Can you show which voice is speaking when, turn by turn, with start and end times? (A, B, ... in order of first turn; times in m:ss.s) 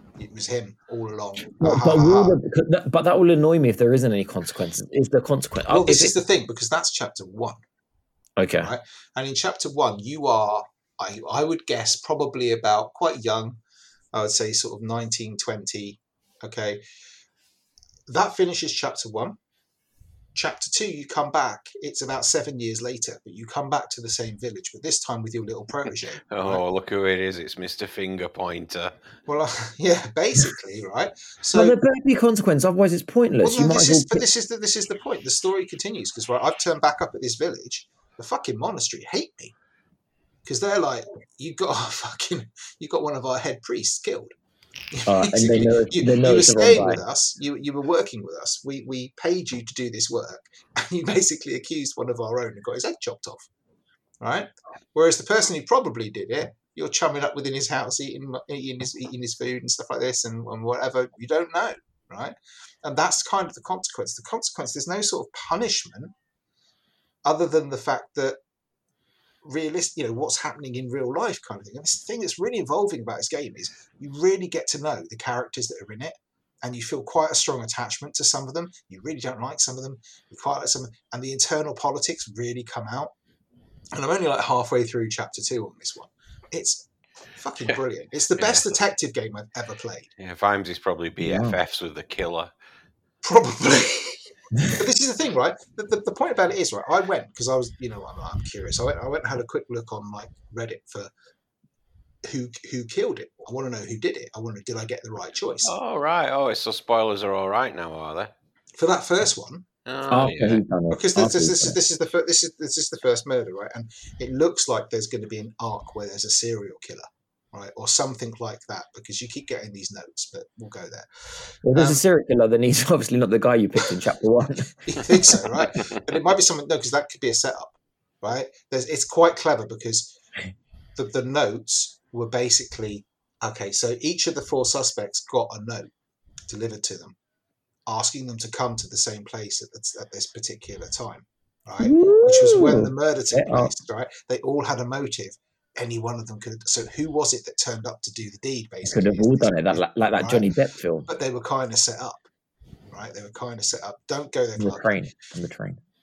0:00.2-0:02.4 A
0:01.6-0:06.2 B
0:05.7-0:07.6 A
0:08.4-0:08.7 B
0:08.6-0:13.6 A
0:14.1-0:16.8 A
0:18.1-0:19.4 A
0:20.4-0:26.6 A
0:26.3-0:28.9 C
0:29.3-0:31.8 A
0:31.5-0:34.2 B
0:33.4-0:39.6 A
0:40.4-0:44.3 A
0:44.9-0:53.5 A
0:45.1-0:47.0 B
0:54.2-1:06.1 A
1:07.2-1:08.4 A
1:09.4-1:23.1 A
1:24.0-1:30.1 A
1:28.4-1:28.7 C
1:30.2-1:32.5 C
1:31.2-1:31.6 B
1:33.2-1:41.1 A
1:42.2-1:45.7 A
1:45.6-1:48.3 C
1:48.8-1:49.7 A
1:49.9-1:50.6 C
1:50.1-1:51.8 B
1:50.9-2:01.1 A
2:01.6-2:04.8 B
2:01.7-2:02.0 A
2:04.8-2:10.2 A
2:11.0-2:15.9 A
2:16.5-2:17.2 A
2:17.9-2:30.5 A
2:21.8-2:23.7 B
2:28.8-2:31.1 B
2:31.1-2:32.3 A
2:32.9-2:35.0 A
2:34.6-2:35.8 B